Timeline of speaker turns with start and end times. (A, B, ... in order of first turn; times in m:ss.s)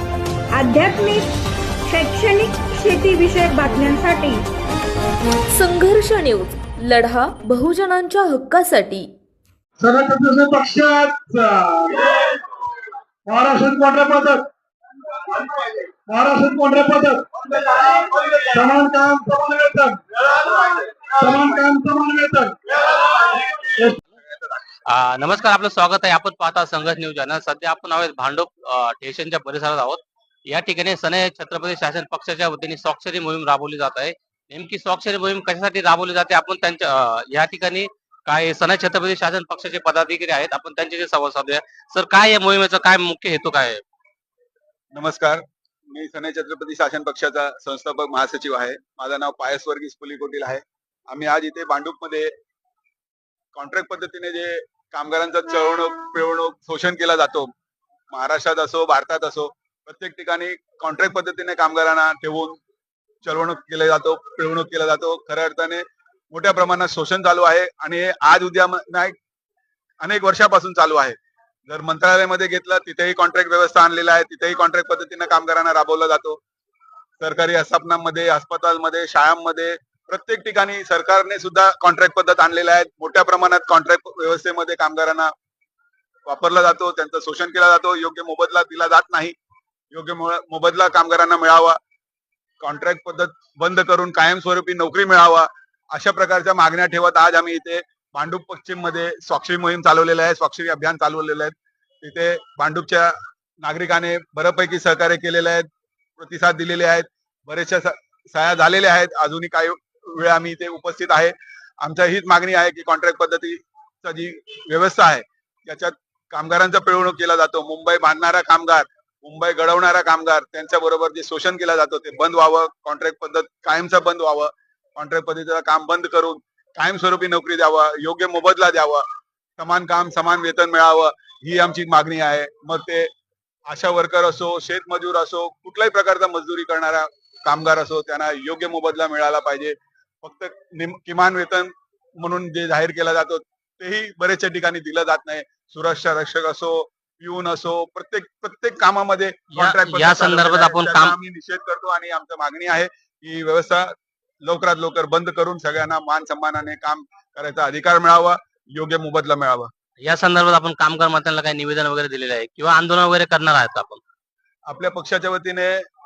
0:00.5-0:01.3 A
0:01.9-0:04.4 A
0:05.5-0:09.1 B
0:09.8-0:12.4 C
0:13.2-0:14.5 C
0:15.3-0:24.0 C
0:24.8-0:43.8 D
0:44.9-0:52.3 E
0:53.5-0:57.5 E
0:58.1-1:02.6 E
1:03.2-1:09.1 E
1:10.0-1:11.2 E
1:11.7-1:16.4 E
1:17.2-1:25.3 E
1:26.3-1:29.3 E
1:29.9-1:31.8 E
1:32.6-1:45.7 E
1:46.2-2:09.0 E
2:09.6-2:13.1 E
2:13.7-2:33.9 E
2:29.5-2:31.2 D
2:34.4-2:39.7 E
2:40.0-2:44.0 D
2:44.7-2:45.8 E